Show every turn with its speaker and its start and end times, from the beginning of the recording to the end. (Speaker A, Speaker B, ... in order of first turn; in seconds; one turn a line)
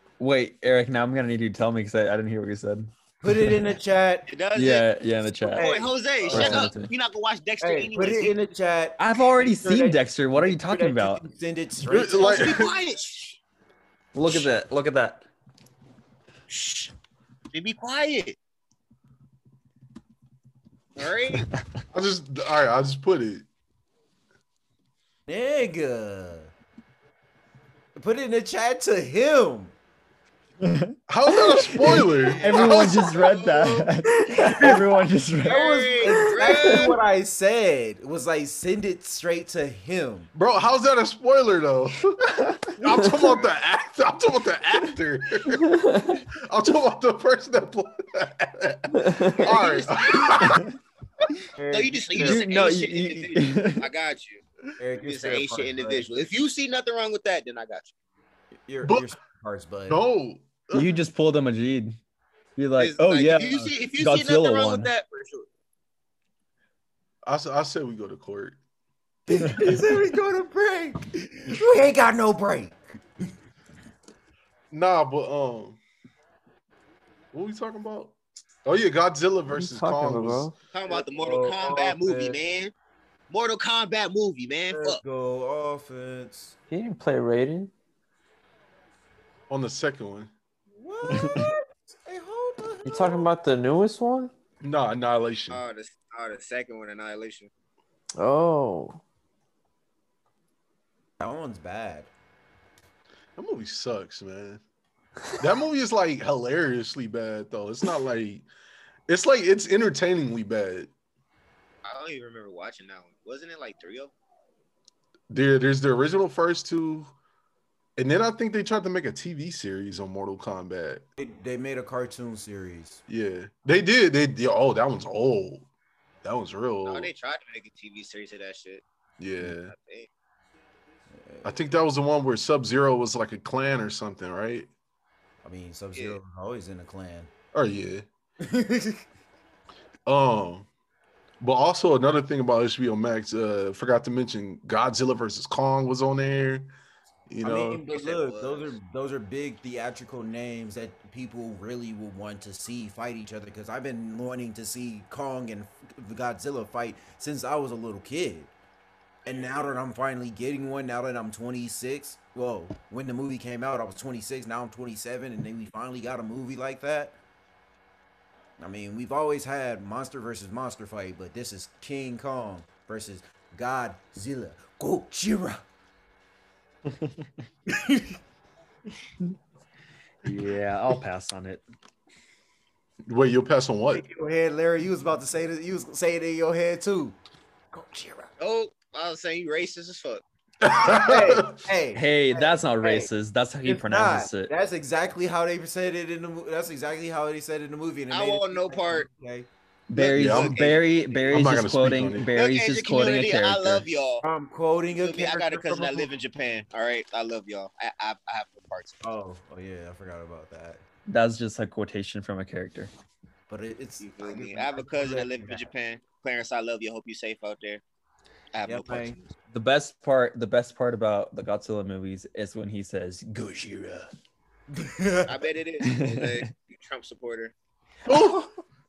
Speaker A: 0.2-2.9
Speaker B: 3.2-4.3
Speaker C: 4.3-4.9
Speaker A: 4.5-5.7
Speaker C: 5.4-8.3
Speaker B: 5.5-6.7
Speaker D: 6.2-6.5
Speaker A: 6.3-6.9
Speaker B: 7.6-12.5
Speaker A: 9.0-11.2
Speaker D: 11.9-12.7
Speaker C: 12.1-13.4
Speaker A: 14.1-15.2
Speaker C: 16.5-16.9
Speaker C: 17.5-18.4
Speaker C: 20.9-21.5
Speaker D: 21.9-23.4
Speaker B: 25.3-26.5
Speaker B: 27.9-29.7
Speaker A: 30.6-36.1
Speaker D: 31.1-33.2
Speaker B: 34.3-34.8
Speaker C: 35.4-37.0
Speaker B: 35.4-40.3
Speaker D: 40.3-42.2
Speaker D: 42.7-50.6
Speaker C: 49.3-50.5
Speaker B: 51.5-52.4
Speaker C: 51.7-54.4
Speaker A: 52.2-53.8
Speaker B: 54.8-56.1
Speaker C: 55.0-57.9
Speaker B: 58.7-60.0
Speaker D: 58.8-59.1
Speaker D: 59.9-61.0
Speaker A: 60.7-62.0
Speaker A: 62.6-64.9
Speaker C: 62.8-65.5
Speaker D: 67.2-68.6
Speaker B: 69.3-72.8
Speaker D: 74.7-75.8
Speaker D: 77.3-80.5
Speaker E: 79.5-80.5
Speaker C: 80.7-82.7
Speaker B: 80.9-82.4
Speaker C: 83.3-85.0
Speaker B: 84.7-86.5
Speaker E: 86.7-87.7
Speaker D: 89.5-90.3
Speaker B: 90.7-93.3
Speaker A: 91.1-91.4
Speaker E: 92.8-94.3
Speaker D: 94.6-95.6
Speaker C: 95.5-97.5
Speaker E: 98.2-99.0
Speaker B: 101.2-102.1
Speaker D: 103.4-104.6
Speaker D: 105.4-108.5
Speaker D: 109.1-110.9
Speaker C: 111.8-114.1
Speaker D: 115.3-117.1
Speaker D: 118.0-121.0
Speaker B: 121.2-123.0
Speaker D: 123.1-125.7
Speaker D: 126.2-127.1
Speaker C: 126.8-128.8
Speaker D: 129.2-129.7
Speaker C: 129.4-130.1
Speaker B: 131.1-131.5
Speaker D: 131.4-134.7
Speaker B: 135.4-137.3
Speaker D: 137.5-138.0
Speaker B: 138.4-139.0
Speaker D: 140.1-140.7
Speaker D: 141.4-146.7
Speaker D: 147.3-147.8
Speaker B: 147.4-158.5
Speaker C: 147.9-148.7
Speaker B: 159.2-167.2
Speaker B: 168.6-175.6
Speaker B: 177.7-178.2
Speaker A: 180.2-181.6
Speaker D: 183.1-184.0
Speaker B: 183.9-187.2
Speaker B: 187.7-188.3
Speaker C: 188.4-190.2
Speaker D: 190.6-191.6
Speaker B: 190.9-193.1
Speaker A: 191.9-194.5
Speaker B: 193.6-199.5
Speaker C: 198.1-199.1
Speaker A: 199.9-203.8
Speaker C: 199.9-201.2
Speaker D: 200.1-200.6
Speaker D: 201.3-202.3
Speaker C: 202.3-204.2
Speaker B: 204.2-206.1
Speaker C: 204.9-209.0
Speaker B: 209.0-210.8
Speaker A: 211.1-212.9
Speaker B: 213.5-215.7
Speaker C: 214.0-217.8
Speaker C: 218.5-219.3
Speaker B: 218.7-219.2
Speaker A: 219.5-224.1
Speaker B: 224.7-225.5
Speaker C: 225.3-227.5
Speaker A: 225.8-226.5
Speaker D: 228.1-228.5